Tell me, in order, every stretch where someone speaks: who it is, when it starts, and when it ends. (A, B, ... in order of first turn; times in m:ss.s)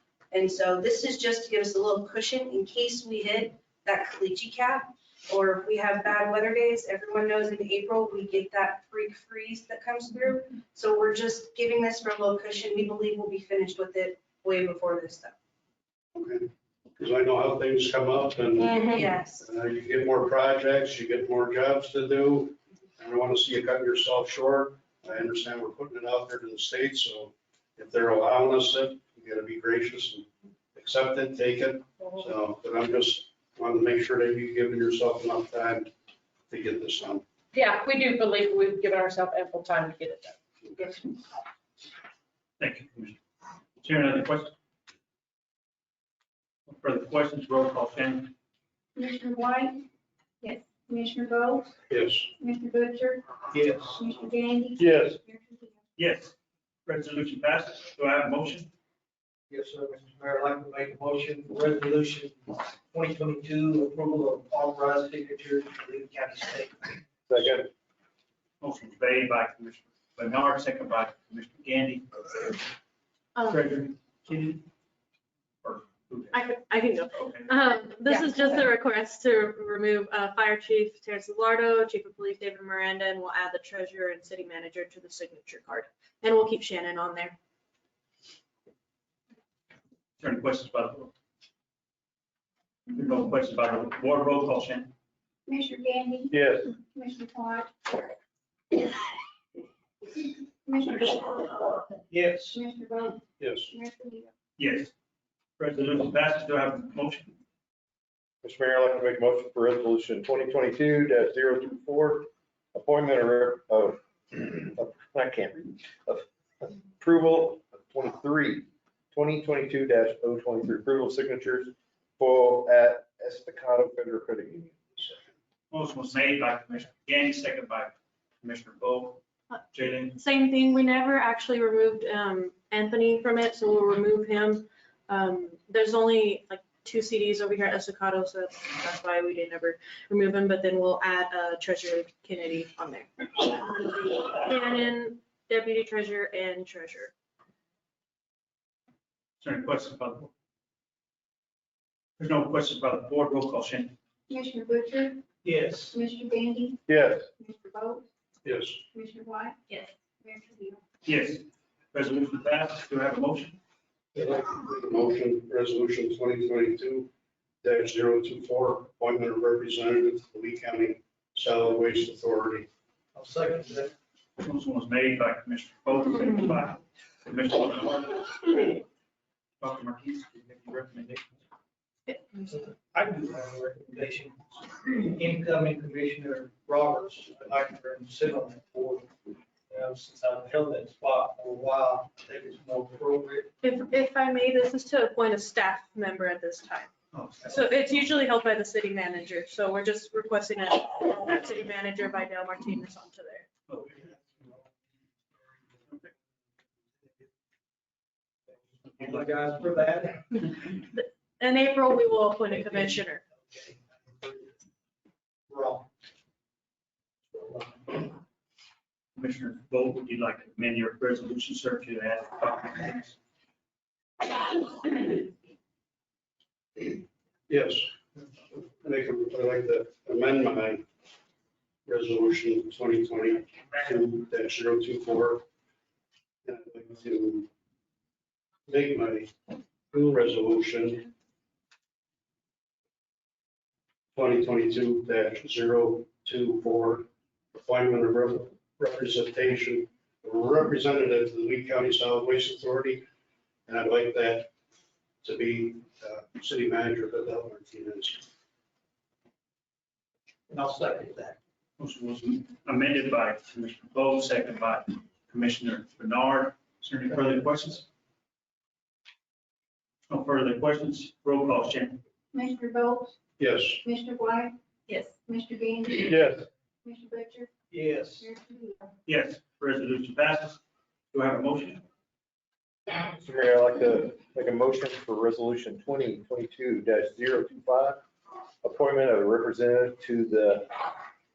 0:00.3-0:15.3 A
0:16.1-0:18.7 B
0:18.7-0:19.4 A
0:19.4-0:35.9 B
0:36.5-0:37.2 B
0:37.5-0:41.2 C
0:42.6-0:43.2 D
0:43.8-0:44.5 D
0:46.7-0:48.3 D
0:49.0-0:49.9 E
0:50.4-0:51.7 E
0:51.9-0:52.3 B
0:52.4-0:53.3 E
0:53.5-0:53.9 F
0:54.0-0:55.7 E
0:54.8-0:55.2 G
0:56.0-0:56.3 D
0:56.9-0:58.7 D
0:59.5-1:07.0 F
1:07.3-1:07.7 G
1:08.6-1:12.6 D
1:13.3-1:13.7 H
1:13.5-1:14.7 D
1:15.6-1:16.4 D
1:16.3-1:27.4 H
1:17.2-1:17.5 D
1:30.2-1:31.1 D
1:32.9-1:34.9 D
1:35.5-1:38.1 E
1:36.3-1:36.7 G
1:40.2-1:42.0 E
1:42.1-1:42.6 F
1:42.5-1:44.3 E
1:43.4-1:43.7 B
1:44.6-1:44.9 D
1:45.6-1:47.3 D
1:48.4-2:05.2 G
2:05.7-2:09.2 D
2:09.7-2:10.2 D
2:10.1-2:27.1 H
2:29.4-2:30.3 D
2:32.2-2:33.9 D
2:34.3-2:35.2 E
2:35.4-2:36.0 F
2:36.0-2:36.8 E
2:36.9-2:37.3 G
2:37.4-2:38.0 E
2:38.4-2:38.8 B
2:38.9-2:40.8 E
2:41.0-2:43.6 D
2:44.1-2:47.1 B
2:47.6-2:52.7 B
2:53.1-2:53.9 F
2:54.4-2:58.8 D
2:59.6-3:01.3 D
3:02.4-3:09.1 F
3:09.7-3:13.5 F
3:13.6-3:16.9 H
3:17.1-3:17.6 D
3:17.5-3:23.5 H
3:23.7-3:24.0 D
3:28.8-3:29.6 D
3:29.0-3:30.2 F
3:30.3-3:33.2 H
3:32.5-3:32.9 F
3:33.5-3:34.5 F
3:35.5-3:35.9 F
3:37.3-3:38.0 F
3:39.2-3:43.2 D
3:47.5-3:47.9 B
3:48.5-3:50.8 B
3:51.8-3:55.4 B
3:56.4-3:57.5 B
3:58.7-3:59.3 B
3:59.9-4:01.1 B
4:04.2-4:13.0 B
4:13.7-4:14.5 B
4:15.2-4:18.3 B
4:20.5-4:21.4 F
4:21.8-4:27.9 D
4:30.1-4:32.0 D
4:32.3-4:33.2 E
4:33.4-4:33.8 B
4:33.8-4:36.2 E
4:36.0-4:36.5 G
4:36.8-4:37.5 E
4:37.7-4:38.2 F
4:38.2-4:38.8 E
4:39.1-4:40.6 D
4:41.1-4:41.8 D
4:42.9-4:48.0 G
4:48.6-4:50.9 G